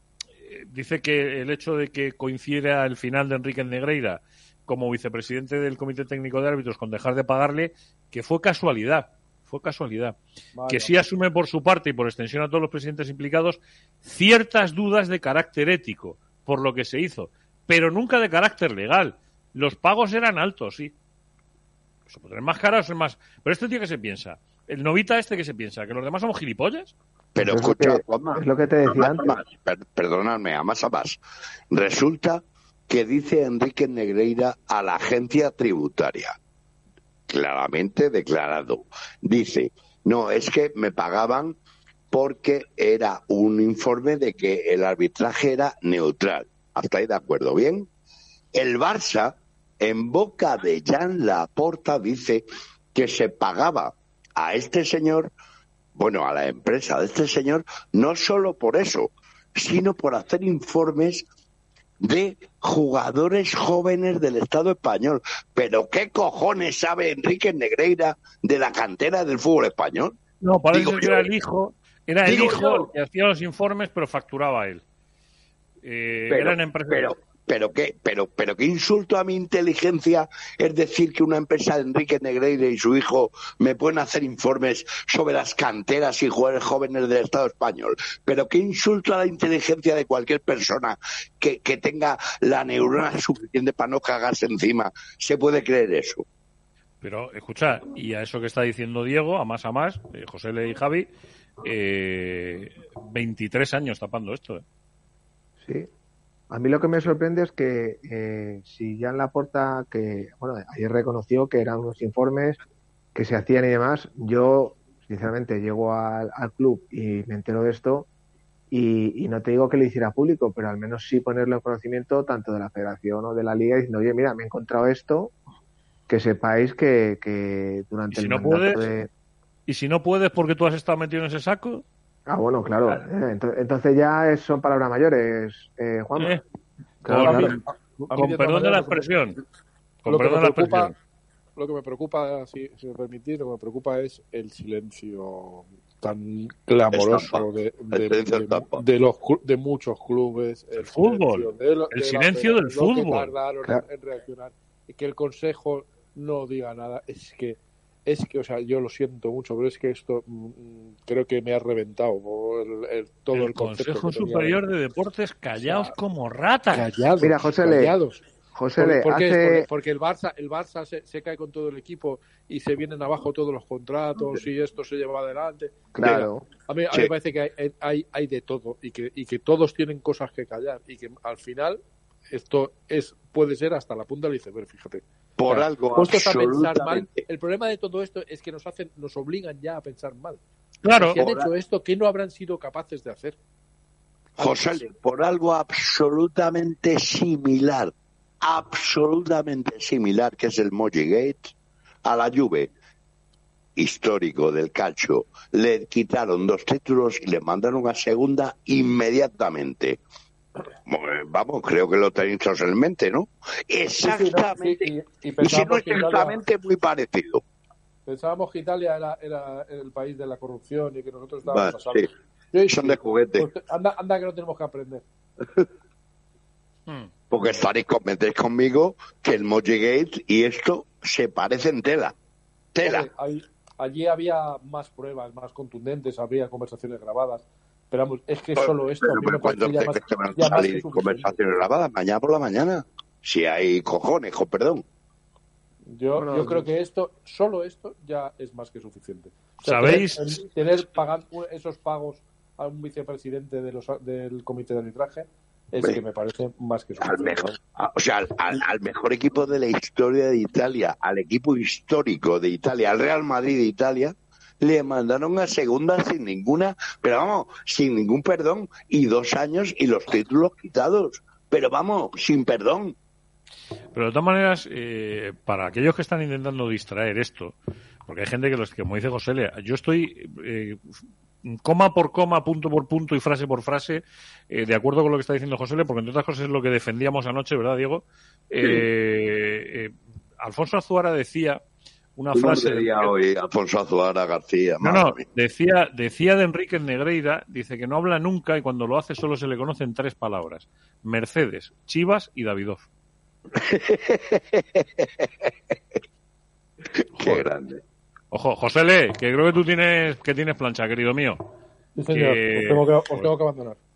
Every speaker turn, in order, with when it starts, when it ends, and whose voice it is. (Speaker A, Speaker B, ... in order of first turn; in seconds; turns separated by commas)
Speaker A: 0.4-10.2, Speaker B: 10.5-11.1, Speaker A: 10.7-20.9, Speaker A: 22.1-26.9, Speaker C: 27.3-31.2, Speaker D: 27.4-29.4, Speaker C: 31.7-36.3, Speaker C: 37.3-41.6, Speaker C: 42.1-47.9, Speaker C: 48.5-55.3, Speaker C: 55.9-61.2, Speaker C: 62.0-70.2, Speaker A: 70.4-74.8, Speaker C: 70.7-71.3, Speaker C: 72.2-72.9, Speaker A: 75.8-77.1, Speaker C: 76.3-96.2, Speaker A: 97.0-101.1, Speaker A: 101.6-104.6, Speaker D: 105.6-105.9, Speaker D: 106.5-112.6, Speaker D: 113.1-118.1, Speaker D: 118.7-125.3, Speaker D: 126.1-129.1, Speaker A: 128.1-128.9, Speaker A: 129.7-131.8, Speaker D: 132.3-136.4, Speaker D: 137.0-137.6, Speaker A: 137.1-139.4, Speaker B: 137.1-139.2, Speaker A: 140.0-140.9, Speaker B: 140.1-140.9, Speaker B: 141.6-164.6, Speaker C: 146.9-148.8, Speaker A: 150.8-153.3, Speaker A: 163.3-166.9, Speaker B: 165.6-165.9, Speaker B: 166.7-168.2, Speaker D: 167.2-167.9, Speaker D: 168.5-169.7, Speaker B: 168.7-185.0, Speaker D: 175.9-176.5, Speaker C: 185.4-187.3, Speaker B: 185.8-190.4, Speaker A: 190.8-191.2, Speaker B: 190.9-193.4, Speaker C: 191.2-191.5, Speaker C: 194.4-201.5, Speaker B: 194.4-194.9, Speaker C: 202.1-202.7, Speaker C: 203.8-210.0, Speaker C: 210.8-217.4, Speaker B: 214.0-216.4, Speaker B: 218.1-225.0, Speaker C: 221.4-222.1, Speaker C: 222.7-223.5, Speaker C: 227.3-232.1, Speaker C: 232.8-233.1, Speaker B: 232.8-241.3, Speaker C: 238.6-244.8, Speaker B: 245.8-257.6, Speaker D: 246.1-246.7, Speaker A: 249.6-250.3, Speaker C: 257.0-272.9, Speaker A: 273.9-277.5, Speaker A: 278.1-280.8, Speaker A: 281.4-291.6, Speaker A: 292.1-293.1, Speaker C: 292.3-295.2, Speaker A: 294.8-302.8, Speaker C: 303.6-305.5, Speaker C: 307.0-307.8, Speaker A: 307.2-307.5, Speaker A: 308.3-311.4, Speaker B: 311.9-313.8, Speaker A: 312.1-313.2